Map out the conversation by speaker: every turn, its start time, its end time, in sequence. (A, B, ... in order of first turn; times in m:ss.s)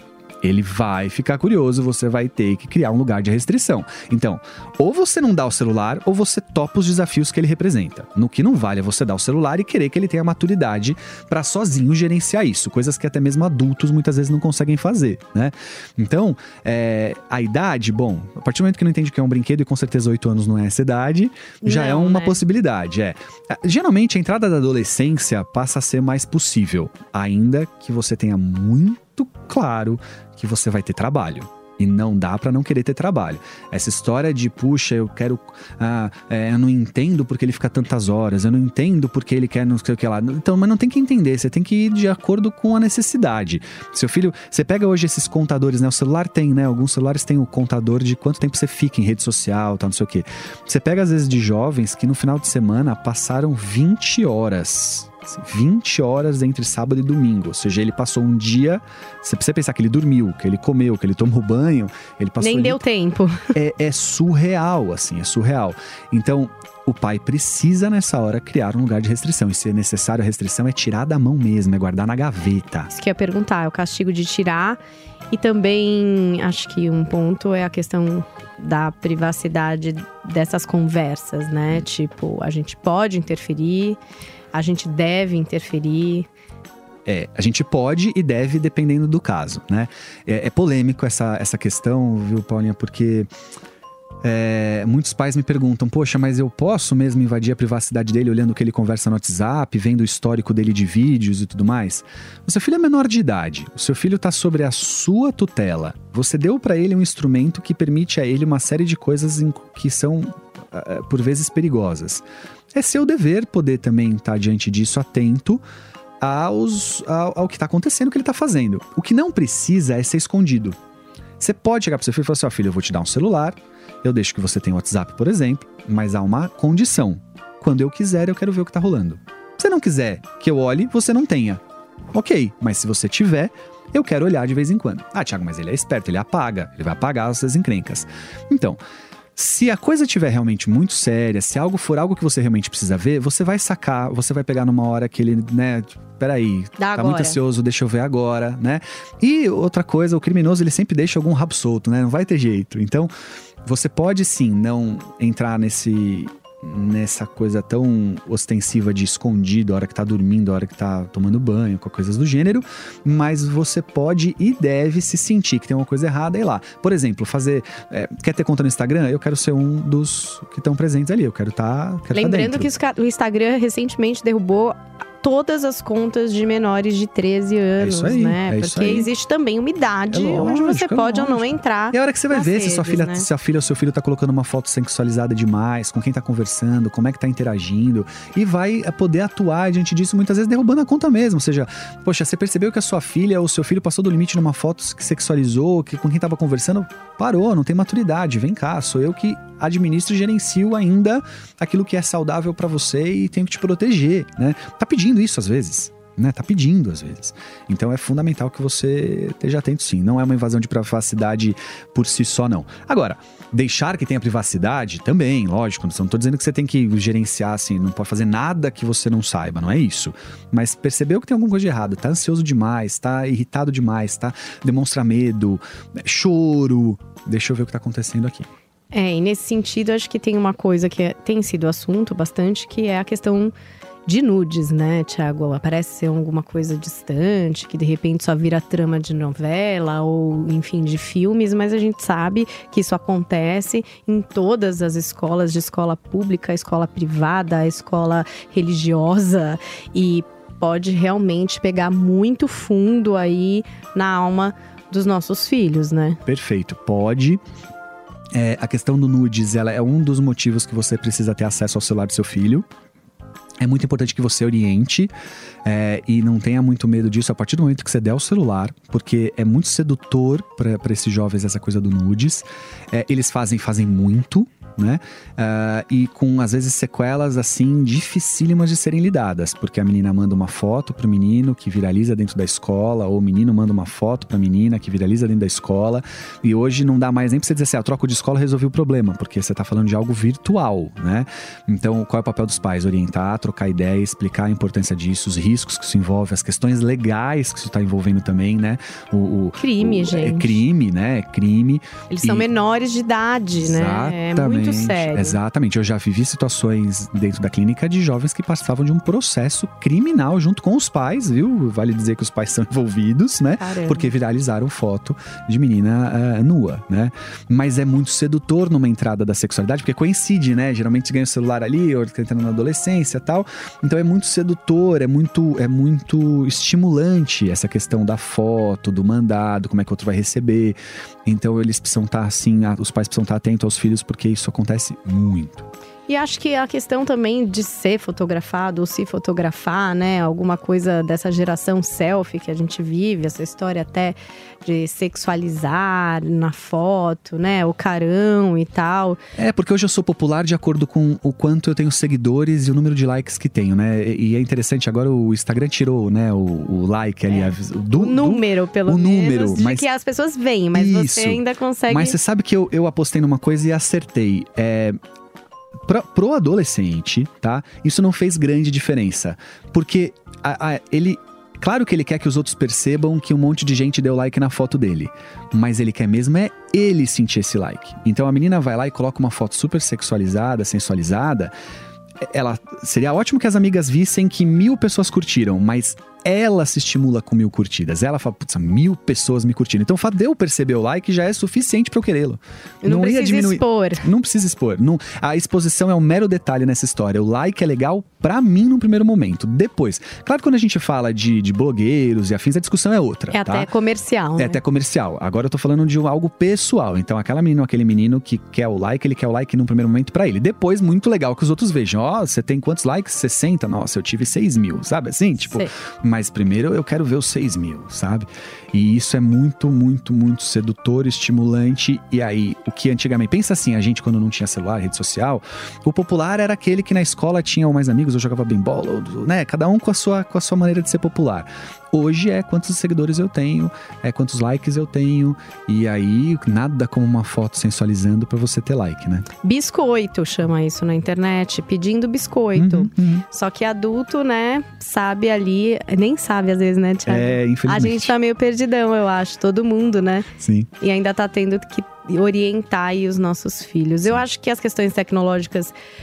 0:00.4-1:02.8 A
0:21.6-0:22.4 B
1:02.4-1:03.5 B
1:03.5-1:12.9 A
1:12.9-1:14.8 B
1:15.3-1:24.0 B
1:24.5-1:26.3 B
1:27.0-1:33.3 A
1:34.2-1:55.6 A
1:56.2-2:00.8 A
2:01.4-2:11.6 A
2:12.1-2:18.8 A
2:19.4-2:33.1 A
2:26.8-2:27.4 B
2:33.6-2:52.7 A
2:52.1-3:03.3 B
2:57.8-2:59.1 A
3:00.1-3:48.5 A
3:48.9-3:53.5 B
3:54.1-4:16.2 B
4:16.2-4:17.4 A
4:18.3-4:22.7 A
4:23.6-4:25.1 A
4:25.6-5:02.5 A
4:59.6-5:00.6 B
5:02.1-5:05.4 B
5:03.6-5:35.7 A
5:13.6-5:14.1 B
5:36.1-5:49.2 B
5:49.4-5:59.9 A
5:57.3-6:02.2 B
6:00.7-6:05.0 A
6:05.8-6:21.5 A
6:22.2-6:43.7 A
6:32.8-6:34.1 B
6:43.3-6:44.6 B
6:44.4-7:19.3 A
7:19.4-7:30.3 B
7:22.6-7:23.3 A
7:27.1-7:28.1 A
7:30.4-7:30.7 A
7:30.8-7:35.7 B